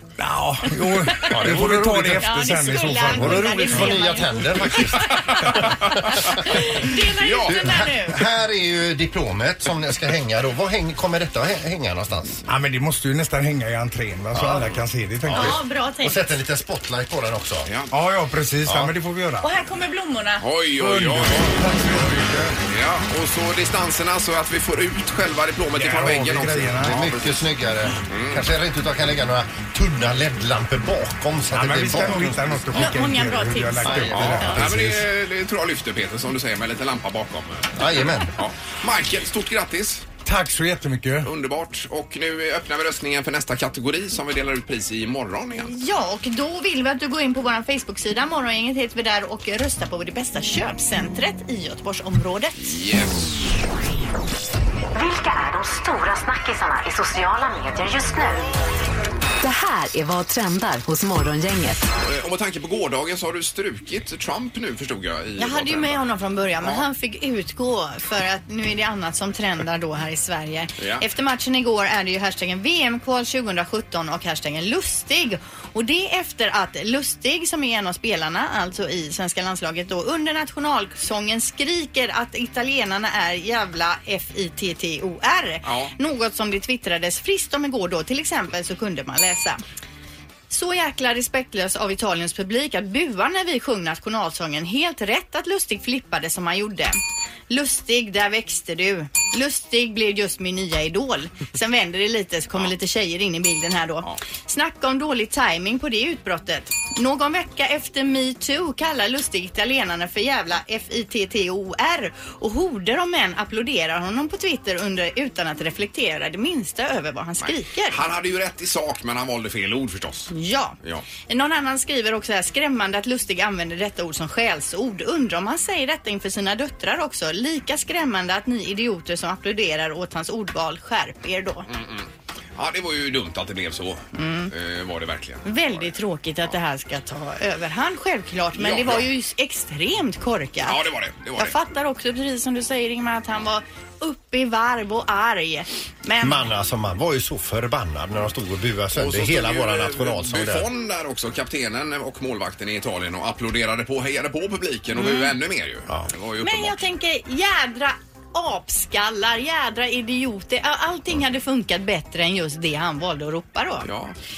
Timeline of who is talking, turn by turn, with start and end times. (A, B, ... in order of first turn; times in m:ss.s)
0:00.2-0:03.9 A
0:01.0-0:01.6 B
0:01.3-0:02.2 C
0:02.2-0:05.2 B
0:03.1-0:06.3 C
0:04.8-0:06.4 D
0:06.3-0:08.2 B
0:07.0-0:07.7 D
0:07.5-0:12.4 C
0:12.5-0:15.6 A
0:14.3-0:14.7 C
0:15.2-0:17.7 C
0:15.3-0:16.2 B
0:17.6-0:17.9 D
0:17.9-0:19.5 A
0:18.6-0:18.9 C
0:19.4-0:20.4 B
0:20.4-0:21.6 D
0:20.8-0:22.6 A
0:22.6-0:27.4 D
0:25.7-0:27.0 A
0:26.8-0:32.9 C
0:28.1-0:28.5 D
0:31.5-0:35.0 A
0:32.7-0:34.6 B
0:33.8-0:34.4 C
0:34.1-0:40.0 D
0:37.8-0:38.3 C
0:40.2-0:41.3 A
0:41.2-0:45.7 D
0:45.6-0:52.7 B
0:52.6-0:53.4 D
0:54.9-0:58.5 E
0:59.4-1:01.8 E
1:02.0-1:06.1 D
1:05.4-1:29.6 B
1:10.8-1:11.0 D
1:25.6-1:25.9 D
1:30.5-1:58.0 B
1:57.4-2:00.3 D
2:00.3-2:11.7 B
2:11.7-2:15.9 D
2:14.1-2:14.5 B
2:15.4-2:20.8 B
2:18.5-2:19.1 D
2:20.6-2:21.5 D
2:21.4-2:26.4 B
2:26.2-2:30.7 C
2:28.9-2:36.8 D
2:34.9-2:35.3 B
2:36.4-2:43.9 B
2:43.8-2:44.1 D